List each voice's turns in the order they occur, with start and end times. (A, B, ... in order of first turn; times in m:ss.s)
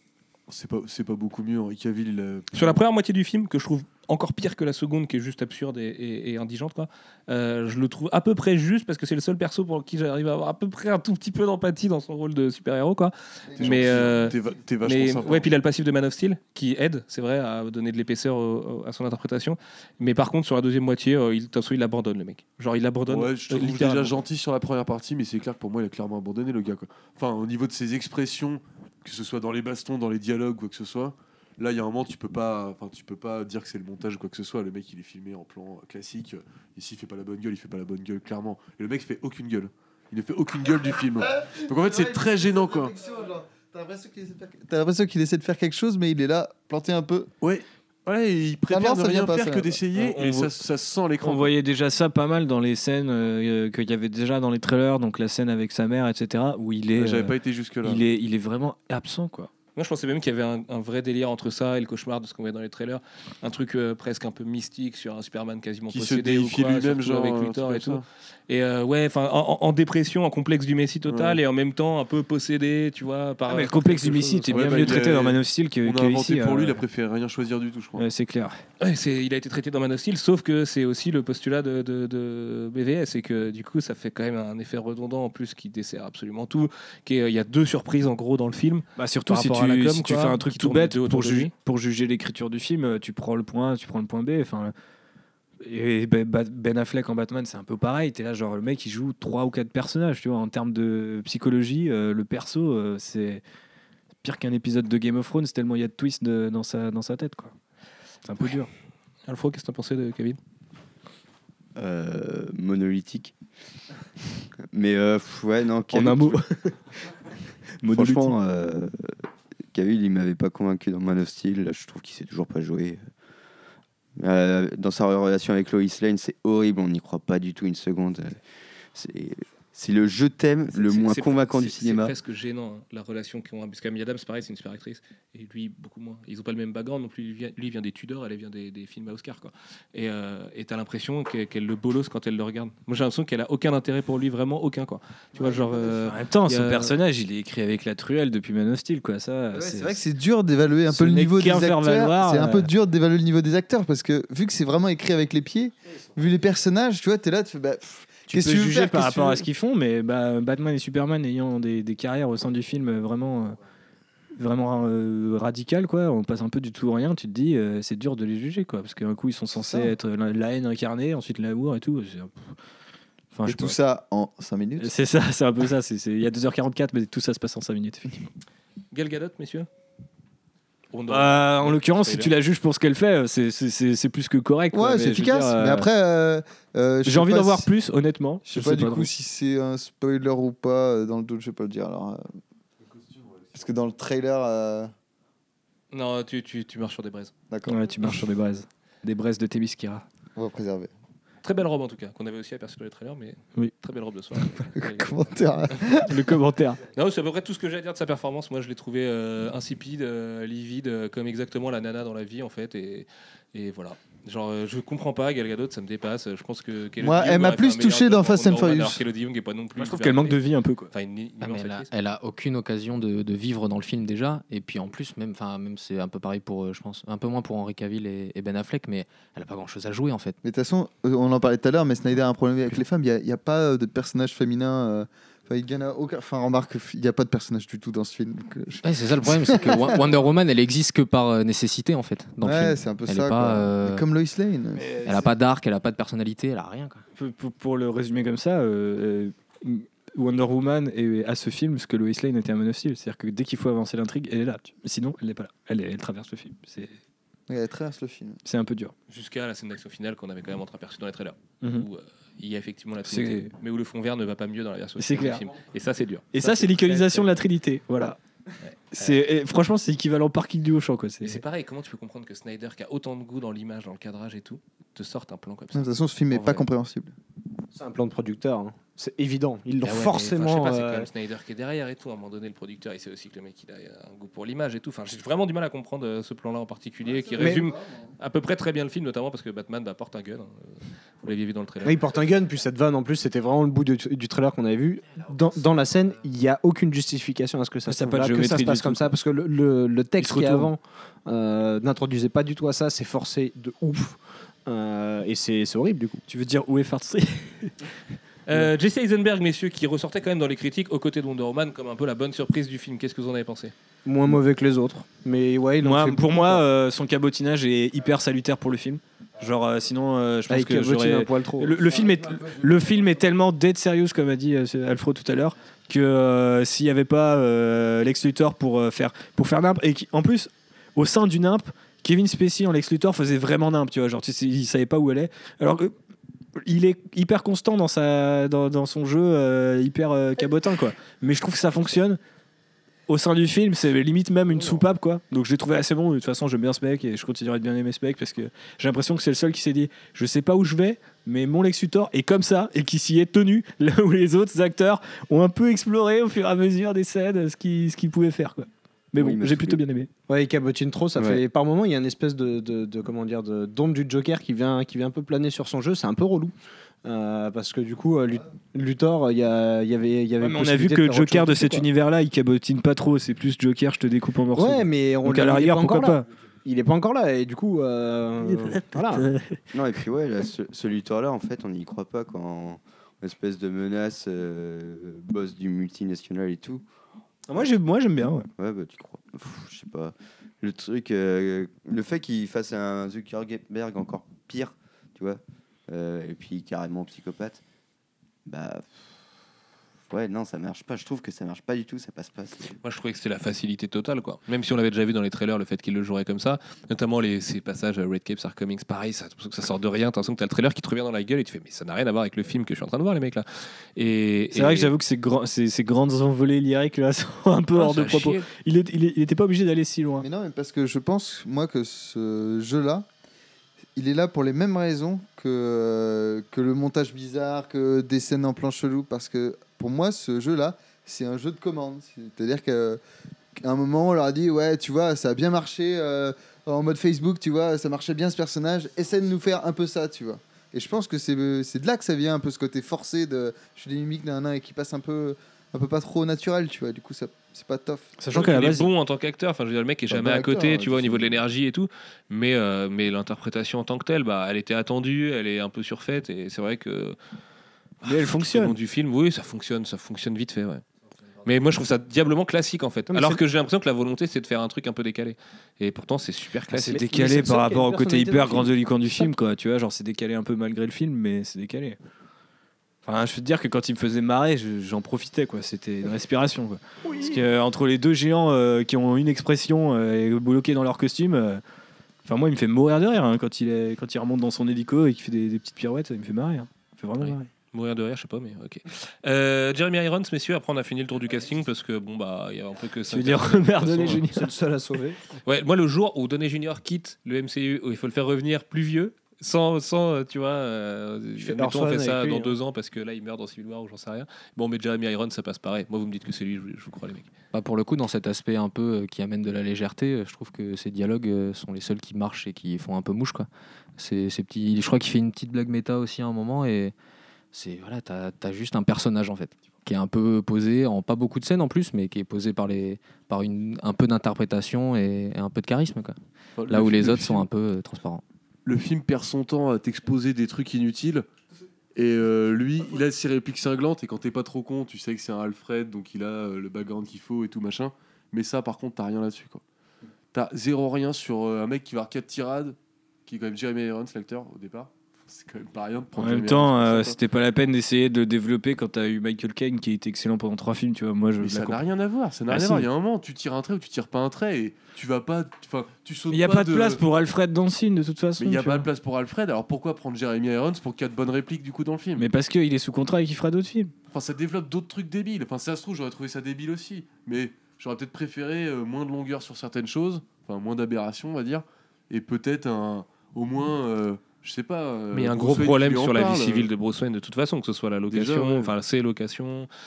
0:00.5-0:02.8 A
0:02.5-0:24.1 B
0:13.5-0:14.6 C
0:13.6-0:15.5 A
0:23.1-0:43.0 A
0:41.4-0:47.3 C
0:47.4-0:51.5 A
0:48.7-0:49.8 C
0:50.0-0:50.5 D
0:51.2-0:59.5 D
0:57.0-0:58.0 A
0:59.8-1:15.0 B
1:05.9-1:08.0 A
1:11.1-1:11.4 A
1:13.5-1:16.8 D
1:14.5-1:18.1 A
1:18.0-1:18.5 D
1:18.8-1:31.5 B
1:29.0-1:34.7 D
1:35.6-1:43.4 D
1:44.2-1:47.5 D
1:48.2-1:48.7 D
1:49.3-1:50.4 B
1:51.8-1:53.4 E
1:54.7-1:56.4 E
1:55.9-1:56.7 D
1:57.8-1:58.4 D
1:57.9-2:03.1 E
2:04.2-2:08.4 E
2:08.9-2:12.1 E
2:10.7-2:26.9 B
2:25.4-2:26.1 C
2:26.0-2:30.0 D
2:29.5-2:39.4 C
2:30.9-2:32.7 D
2:38.3-2:43.6 D
2:44.4-2:52.5 D
2:53.3-2:53.8 D
2:53.5-2:54.9 C
2:54.8-2:58.3 D
2:58.9-2:59.7 B
3:00.9-3:02.3 B
3:01.1-3:05.9 D
3:04.7-3:07.7 C
3:07.0-3:09.1 D
3:08.5-3:12.3 C
3:12.8-3:13.5 A
3:13.5-3:14.9 C
3:15.9-3:17.3 B
3:17.5-3:17.8 C
3:17.7-3:20.1 D
3:20.4-3:20.9 C
3:21.4-3:25.3 B
3:24.8-3:26.4 C
3:25.9-3:26.8 D
3:26.9-3:40.4 B
3:37.0-3:39.0 C
3:39.8-3:40.9 D
3:40.9-3:41.9 B
3:41.4-3:50.4 F
3:50.4-4:00.1 C
3:58.8-4:04.0 F
4:02.4-4:05.0 C
4:04.7-4:05.3 D
4:05.0-4:07.0 F
4:07.2-4:17.0 D
4:17.5-4:18.4 C
4:18.4-4:18.9 D
4:19.1-4:27.4 B
4:21.6-4:21.9 D
4:23.0-4:23.5 D
4:25.0-4:25.5 D
4:26.3-4:28.2 D
4:28.6-4:29.2 B
4:28.9-4:31.4 D
4:31.2-4:36.6 B
4:35.7-4:37.1 C
4:37.7-4:41.1 G
4:39.8-4:52.0 B
4:47.4-4:47.7 G
4:47.5-4:48.0 C
4:51.8-5:06.2 G
4:57.9-4:59.1 D
5:00.2-5:00.7 D
5:06.3-5:07.9 D
5:08.5-5:13.7 B
5:14.0-5:16.6 G
5:15.8-5:35.9 D
5:20.5-5:21.8 G
5:36.6-5:42.2 D
5:43.1-6:00.1 D
5:59.2-5:59.8 E
6:00.3-6:11.8 G
6:10.4-6:16.2 D
6:14.6-6:19.3 G
6:18.6-6:19.6 D
6:19.7-6:26.8 E
6:27.5-6:28.5 D
6:28.6-6:37.6 E
6:38.5-6:39.1 E
6:40.1-6:42.8 E
6:42.8-6:53.4 B
6:54.0-6:54.9 B
6:54.5-7:00.3 D
6:57.8-6:58.5 B
7:00.2-7:03.1 C
7:04.0-7:13.0 C
7:13.6-7:28.2 C
7:28.2-7:28.9 D
7:28.3-7:37.2 B
7:30.1-7:31.4 C
7:38.0-7:40.8 B
7:38.0-7:38.8 D
7:41.4-7:47.0 B
7:43.1-7:43.4 D
7:46.7-7:52.0 D
7:47.0-7:48.8 G
7:53.0-8:01.6 D
8:02.2-8:07.5 D
8:07.2-8:14.2 B
8:13.1-8:14.5 D
8:14.2-8:15.2 G
8:15.4-8:27.3 B
8:21.4-8:22.6 G
8:27.5-8:36.9 F
8:37.5-8:46.2 F
8:46.6-8:47.5 A
8:46.7-8:48.2 F
8:48.6-8:51.3 A
8:52.0-8:59.6 A
9:00.3-9:07.2 A
9:06.2-9:11.8 D
9:11.4-9:17.0 A
9:12.5-9:12.9 D
9:16.3-9:18.9 D
9:18.4-9:22.3 A
9:22.2-9:23.9 D
9:24.1-9:36.7 A
9:35.1-9:39.7 B
9:38.1-9:38.7 A